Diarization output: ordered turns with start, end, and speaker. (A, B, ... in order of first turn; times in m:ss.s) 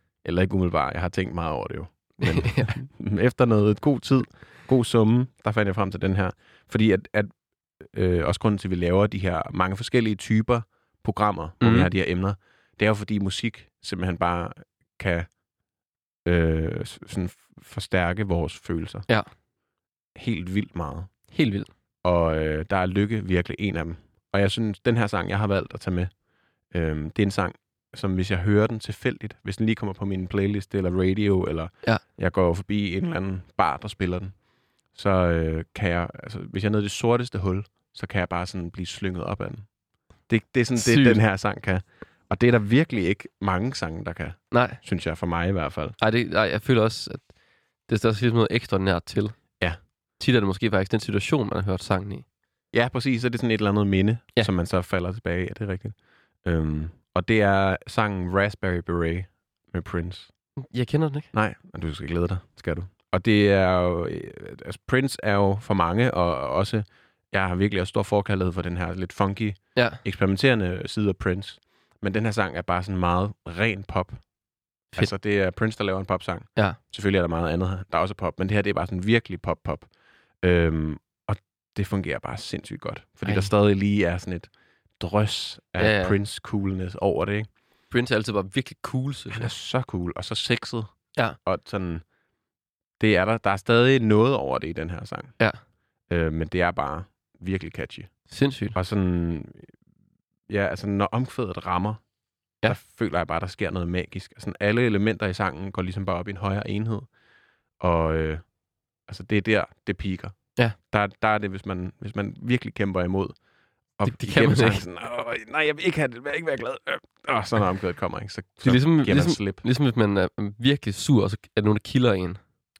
0:00.2-0:15.4 A
0:02.2-0:02.7 B
0:11.6-0:11.9 B
0:16.2-0:19.1 A
0:20.1-0:21.3 A
0:21.3-0:21.7 B
0:22.0-0:39.7 A
0:40.3-0:46.0 A
0:40.8-0:41.2 B
0:44.5-0:44.8 B
0:46.0-0:47.3 B
0:47.8-0:49.6 B
0:50.2-0:52.2 B
0:52.7-1:00.3 A
1:00.7-1:01.3 B
1:01.3-1:14.2 A
1:09.7-1:10.0 B
1:14.9-1:27.5 A
1:23.2-1:23.5 B
1:25.8-1:26.2 B
1:27.9-1:29.5 B
1:29.3-1:32.0 A
1:33.0-1:35.4 A
1:36.1-1:39.7 A
1:38.3-1:38.8 B
1:40.5-1:42.0 A
1:42.6-1:47.1 A
1:47.8-1:48.4 A
1:49.1-1:53.4 A
1:54.0-1:59.6 A
1:54.1-1:54.8 B
1:58.6-2:02.4 B